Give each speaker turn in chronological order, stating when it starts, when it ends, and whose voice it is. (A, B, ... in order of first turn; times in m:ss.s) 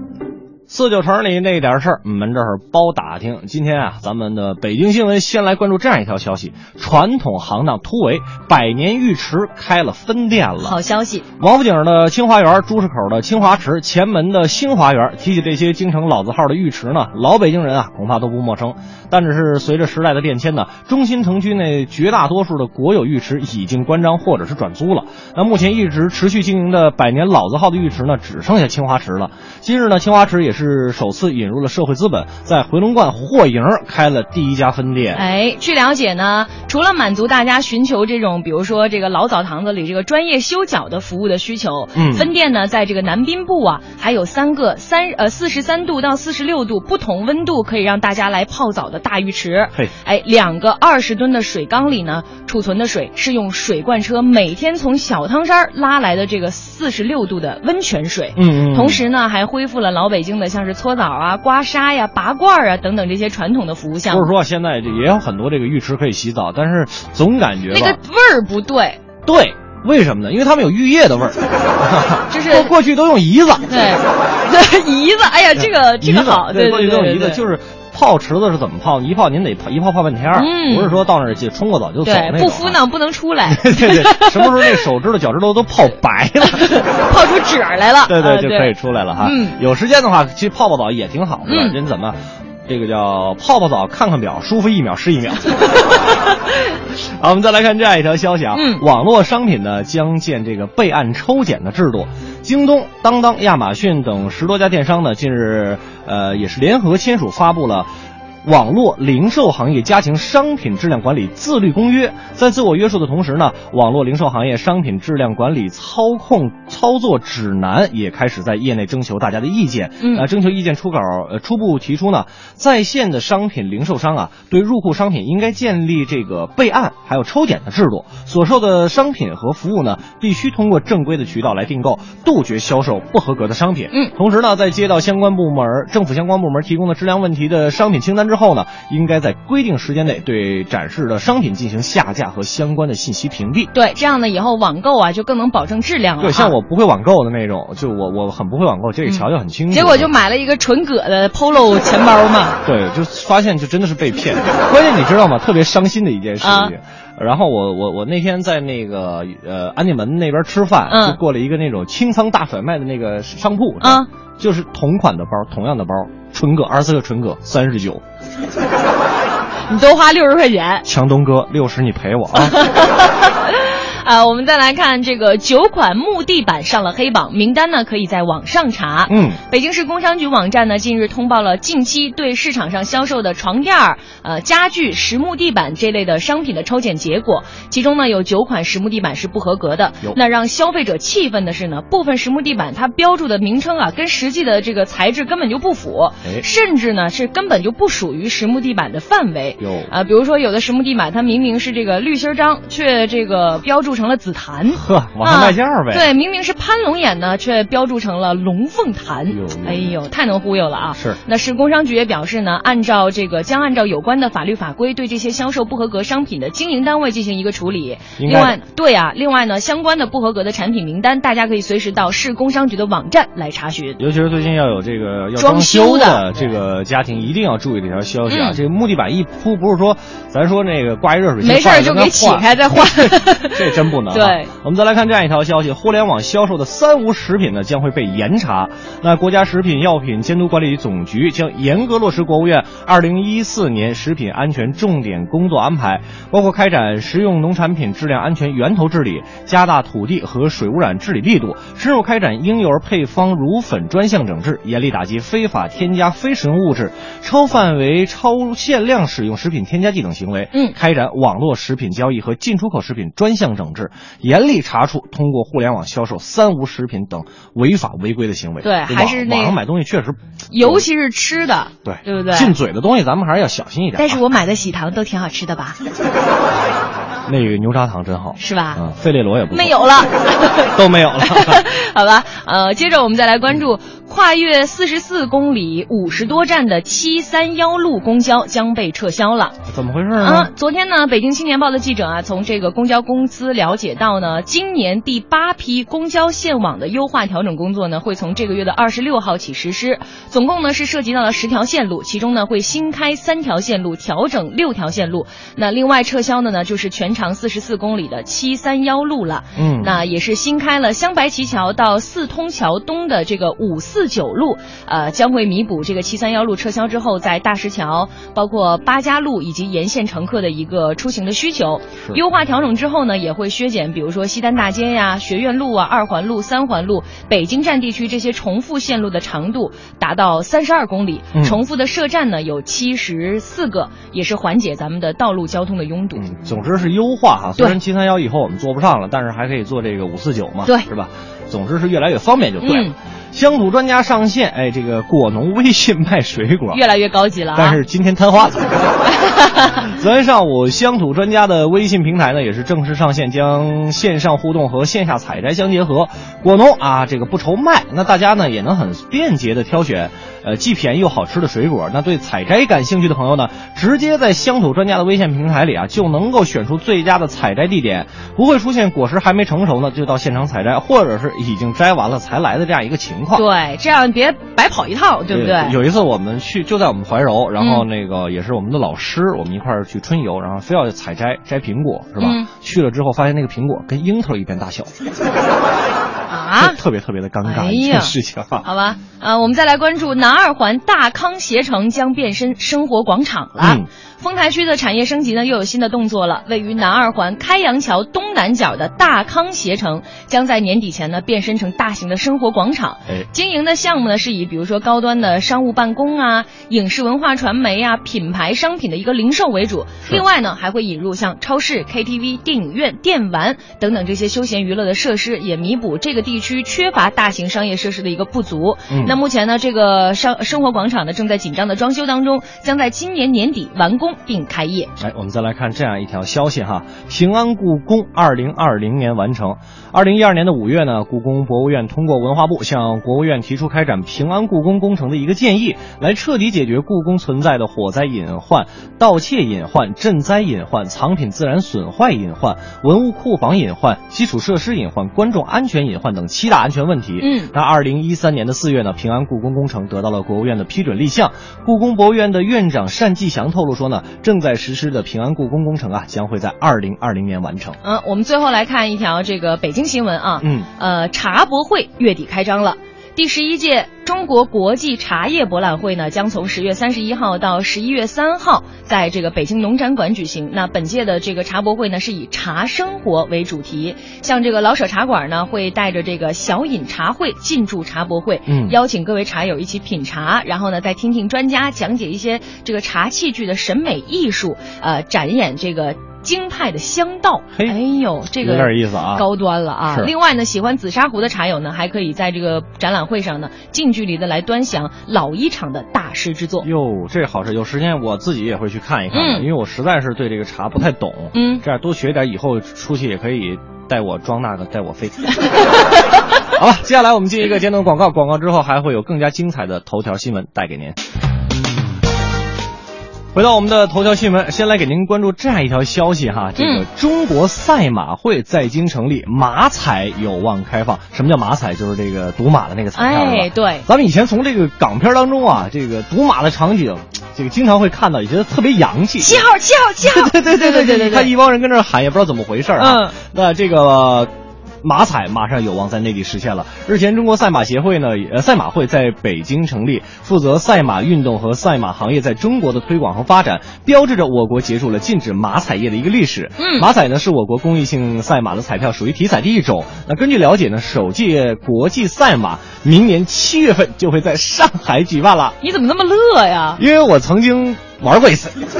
0:00.7-0:10.8 A
0:10.6-0:11.2 B
0:11.4-0:35.2 A
0:35.1-1:04.3 B
0:41.9-0:42.3 A
0:58.4-0:59.0 A
1:04.1-1:08.0 A
1:07.7-1:09.0 B
1:09.2-1:13.8 A
1:12.3-1:12.7 B
1:13.7-1:17.4 B
1:15.6-1:22.8 A
1:20.4-1:21.0 B
1:22.0-1:24.8 B
1:23.5-1:26.8 A
1:26.5-1:29.6 B
1:28.1-1:35.5 A
1:31.4-1:31.8 B
1:36.9-1:47.9 A
1:38.5-1:38.8 B
1:48.4-2:23.7 A
2:00.0-2:00.3 B
2:23.7-2:26.6 B
2:26.2-2:30.1 A
2:29.1-2:32.6 B
2:32.6-2:48.0 A
2:36.4-2:36.7 B
2:40.9-2:41.2 B
2:43.8-2:44.1 B
2:49.7-2:50.8 B
2:50.8-2:52.6 A
2:52.4-3:44.0 B
2:59.1-2:59.4 A
3:19.6-3:19.9 A
3:24.7-3:26.1 A
3:29.3-3:29.9 A
3:31.0-3:31.2 A
3:38.2-3:38.6 A
3:44.0-4:30.9 A
3:45.4-3:46.2 B
3:48.3-3:48.6 B
3:51.4-3:54.5 B
4:28.6-4:29.6 B
4:30.5-4:32.5 B
4:31.8-4:34.2 A
4:34.0-4:35.8 B
4:37.3-4:39.9 A
4:38.4-4:38.8 B
4:39.5-4:49.6 B
4:40.7-4:41.6 A
4:49.7-4:50.5 A
4:50.2-5:36.2 B
5:09.6-5:10.0 A
5:31.3-5:31.6 A
5:36.2-5:46.8 A
5:42.6-5:43.0 B
5:46.7-5:47.8 B
5:47.6-5:49.1 A
5:49.2-5:49.8 B
5:49.9-6:13.4 A
6:13.4-6:15.8 B
6:15.3-6:24.9 A
6:17.6-6:17.8 B
6:22.2-6:22.5 B
6:26.3-6:26.8 B
6:26.6-6:28.6 A
6:27.4-7:04.9 B
6:33.6-6:33.9 A
6:58.9-6:59.2 A
7:05.0-7:37.8 A
7:27.2-7:27.5 B
7:37.8-8:16.7 B
7:40.4-7:40.7 A
7:58.5-7:58.8 A
8:08.4-8:09.3 A
8:09.8-8:10.1 A
8:16.6-8:25.6 A
8:19.1-8:19.5 B
8:21.3-8:21.6 B
8:26.6-8:31.0 A
8:33.3-8:49.5 A
8:36.6-8:36.8 B
8:43.0-8:43.9 B
8:49.2-8:51.3 B
8:50.0-8:54.3 A
8:52.8-8:53.2 B
8:54.8-9:15.6 A
9:06.6-9:06.9 B
9:15.6-9:16.8 B
9:16.8-9:18.6 A